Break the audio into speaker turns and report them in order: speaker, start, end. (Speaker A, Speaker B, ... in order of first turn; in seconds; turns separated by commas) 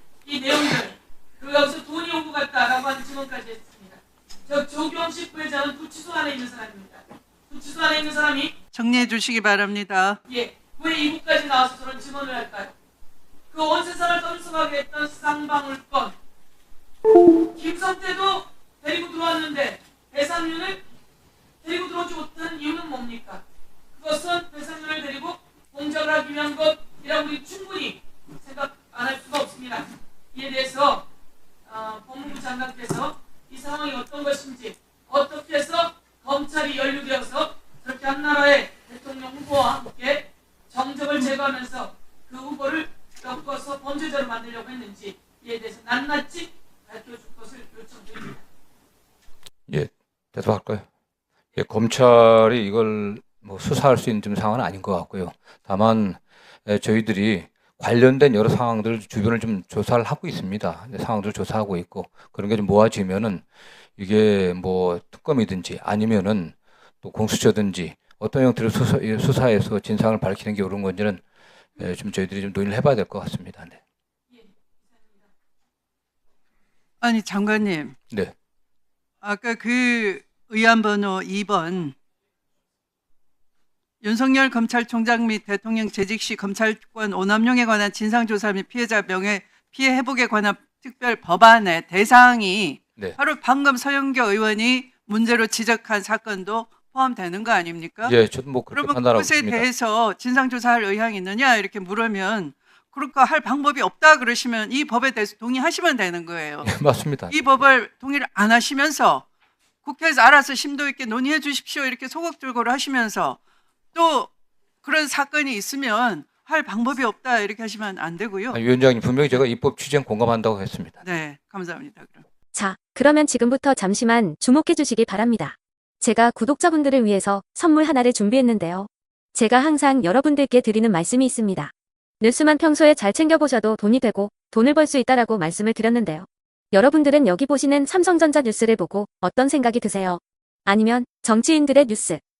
Speaker A: 0.2-8.5, Speaker B: 8.7-10.2, Speaker A: 10.3-12.7, Speaker A: 13.5-16.1, Speaker A: 17.5-20.8, Speaker A: 21.6-23.4, Speaker A: 23.9-31.0, Speaker A: 31.6-48.4, Speaker C: 49.7-50.8, Speaker C: 51.5-63.4, Speaker C: 64.0-71.2, Speaker C: 71.8-73.8, Speaker A: 74.3-75.2, Speaker B: 77.0-77.9, Speaker B: 79.2-81.9, Speaker B: 84.0-106.8, Speaker C: 98.0-99.7, Speaker C: 106.6-107.6, Speaker B: 107.3-109.2, Speaker B: 109.8-113.4, Speaker B: 113.9-114.3, Speaker B: 114.8-118.6, Speaker C: 118.5-121.0, Speaker B: 121.0-122.2, Speaker D: 122.5-142.2